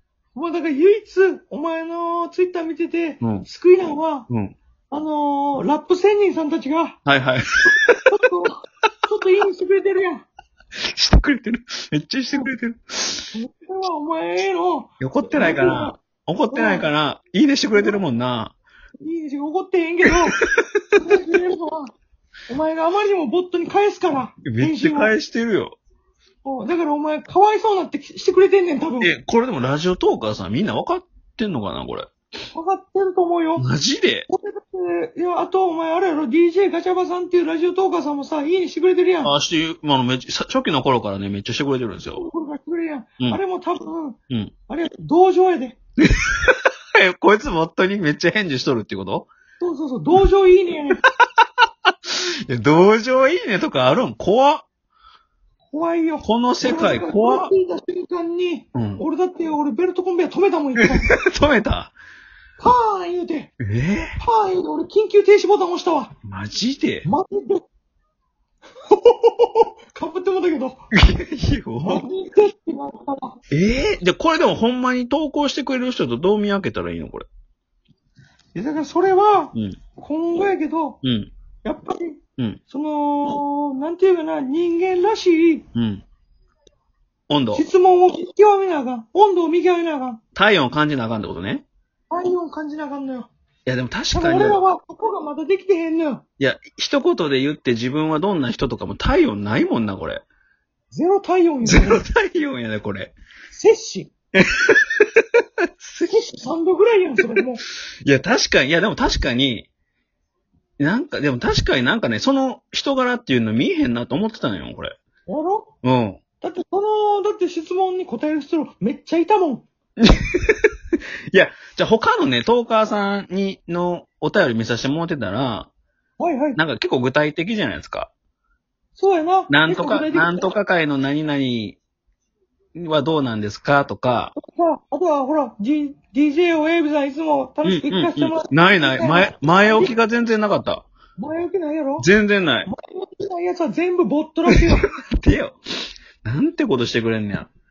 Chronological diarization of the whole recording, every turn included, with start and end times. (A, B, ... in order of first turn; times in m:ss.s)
0:00.3-0:04.3 A
0:03.2-0:03.5 B
0:04.3-0:04.6 B
0:04.9-0:07.0 A
0:07.0-0:08.1 B
0:08.1-0:10.3 A
0:10.8-0:13.3 B
0:13.3-0:16.0 A
0:15.0-0:18.5 B
0:16.5-0:16.9 A
0:17.7-0:18.0 A
0:19.0-0:20.4 A
0:20.3-0:21.0 B
0:21.0-0:21.9 A
0:22.5-0:25.1 A
0:24.4-0:25.8 B
0:26.4-0:29.1 A
0:29.0-0:32.1 B
0:32.5-0:33.6 A
0:33.6-0:34.3 B
0:34.3-0:39.3 A
0:39.2-0:42.2 B
0:42.1-0:44.2 A
0:44.7-0:45.8 A
0:46.0-0:49.3 B
0:49.6-0:51.0 A
0:51.8-0:54.6 B
0:55.7-1:01.1 A
0:56.2-0:57.5 B
0:58.7-0:59.0 B
1:00.8-1:01.9 B
1:02.6-1:03.5 A
1:03.6-1:04.2 B
1:04.2-1:06.1 A
1:06.2-1:07.1 B
1:07.0-1:07.6 A
1:08.9-1:10.8 A
1:10.9-1:12.0 B
1:11.8-1:13.4 A
1:13.5-1:17.2 B
1:18.5-1:21.0 A
1:21.0-1:21.3 B
1:21.6-1:25.6 A
1:25.7-1:26.0 B
1:27.3-1:27.6 B
1:27.5-1:30.2 A
1:30.3-1:31.6 B
1:32.1-1:33.3 A
1:33.6-1:34.6 B
1:34.1-1:36.2 A
1:36.4-1:40.2 B
1:40.9-1:42.0 A
1:41.6-1:43.1 B
1:43.5-1:44.1 A
1:44.3-1:46.2 B
1:46.0-1:47.6 A
1:48.0-1:49.7 B
1:50.8-1:54.9 B
1:55.3-1:55.7 A
1:55.8-1:56.2 B
1:56.4-1:59.6 A
2:00.0-2:05.7 B
2:06.2-2:06.6 A
2:06.6-2:08.1 B
2:09.0-2:10.5 A
2:09.5-2:11.8 B
2:12.7-2:14.3 B
2:14.3-2:19.9 A
2:17.6-2:20.8 B
2:21.2-2:22.1 A
2:22.0-2:22.7 B
2:22.7-2:24.9 A
2:25.2-2:25.6 B
2:26.2-2:27.5 B